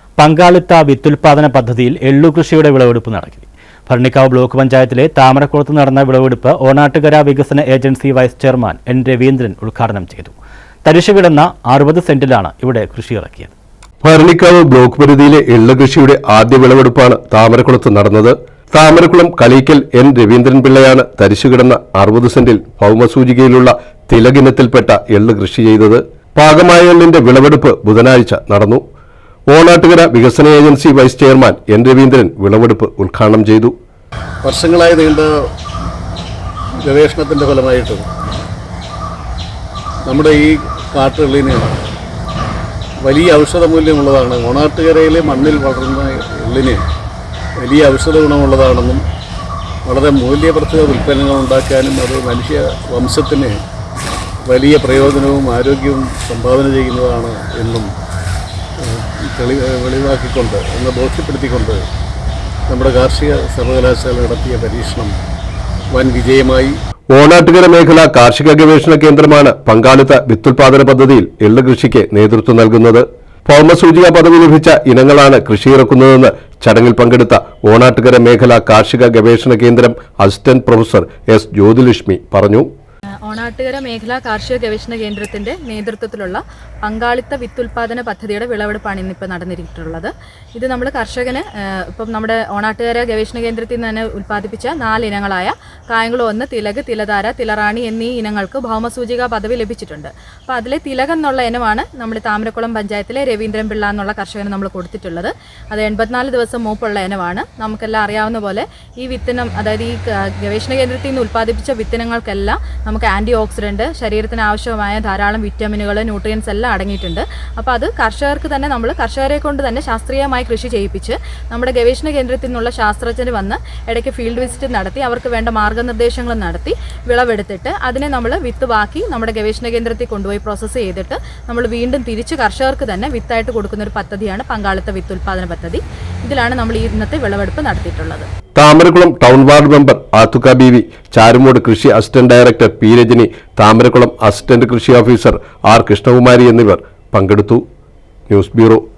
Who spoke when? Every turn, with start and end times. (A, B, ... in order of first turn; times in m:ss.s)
0:00.2-0:13.5 A
0:14.0-0:28.8 B
0:29.5-0:33.7 B
0:34.4-0:35.3 C
0:36.8-0:38.0 C
0:40.0-0:41.7 C
0:43.0-0:46.8 C
0:47.6-0:49.0 C
0:49.8-0:53.5 C
0:54.5-0:57.9 C
0:58.8-1:01.8 C
1:02.7-1:05.1 C
1:05.9-1:06.7 C
1:07.1-1:22.7 B
1:23.2-2:18.3 D
2:18.6-2:27.6 B
2:28.3-2:28.8 B